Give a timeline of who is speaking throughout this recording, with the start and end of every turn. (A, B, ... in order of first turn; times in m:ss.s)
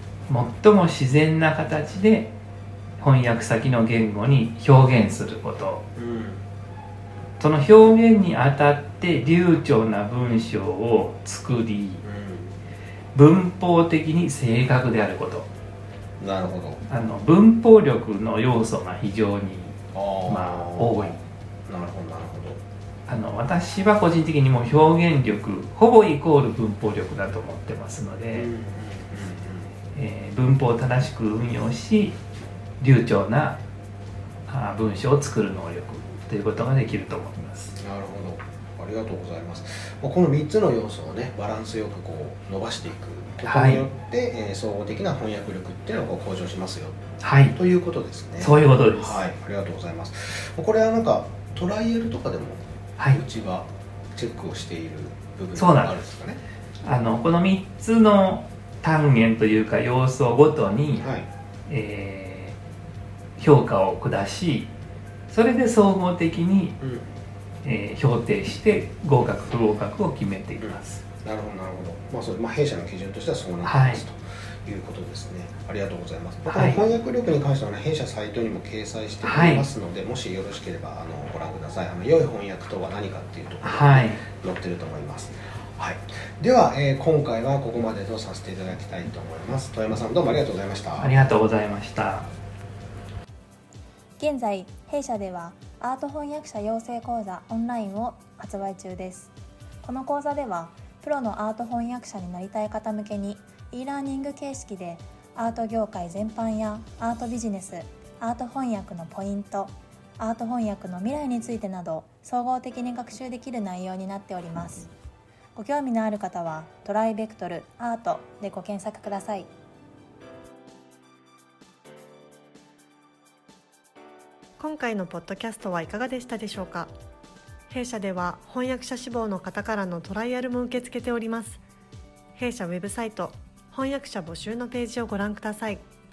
0:00.3-0:02.3 A
0:03.0-0:05.9 A
0:06.0-0:06.4 B
0:07.4-0:12.0 A
0:12.0-0:12.6 B
0:13.1-0:15.5 A
0:16.2-0:16.8 B
0:16.9-0:21.2 A
0:19.9-0:21.2 B
0:21.7-0:22.6 B
0:23.1-0:28.5 A
0:28.3-0:29.7 B
0:29.9-0:32.2 A
0:32.8-0:33.6 A
0:34.5-0:37.8 A
0:37.8-0:47.0 B
0:43.4-0:43.9 A
0:47.2-0:47.6 A
0:47.5-0:56.4 B
0:48.4-0:49.2 A
0:55.6-0:56.0 A
0:56.8-1:01.1 A
1:01.0-1:01.3 B
1:01.7-1:02.6 A
1:03.4-1:04.7 A
1:05.3-1:06.8 A
1:06.8-1:07.1 B
1:07.6-1:11.0 A
1:10.6-1:31.2 B
1:13.6-1:14.0 A
1:16.5-1:16.8 A
1:19.2-1:19.7 A
1:23.6-1:24.2 A
1:31.0-1:32.3 A
1:34.2-1:54.9 C
1:55.6-1:59.5 C
2:04.6-2:06.9 D
2:07.7-2:11.6 D
2:12.4-2:15.8 D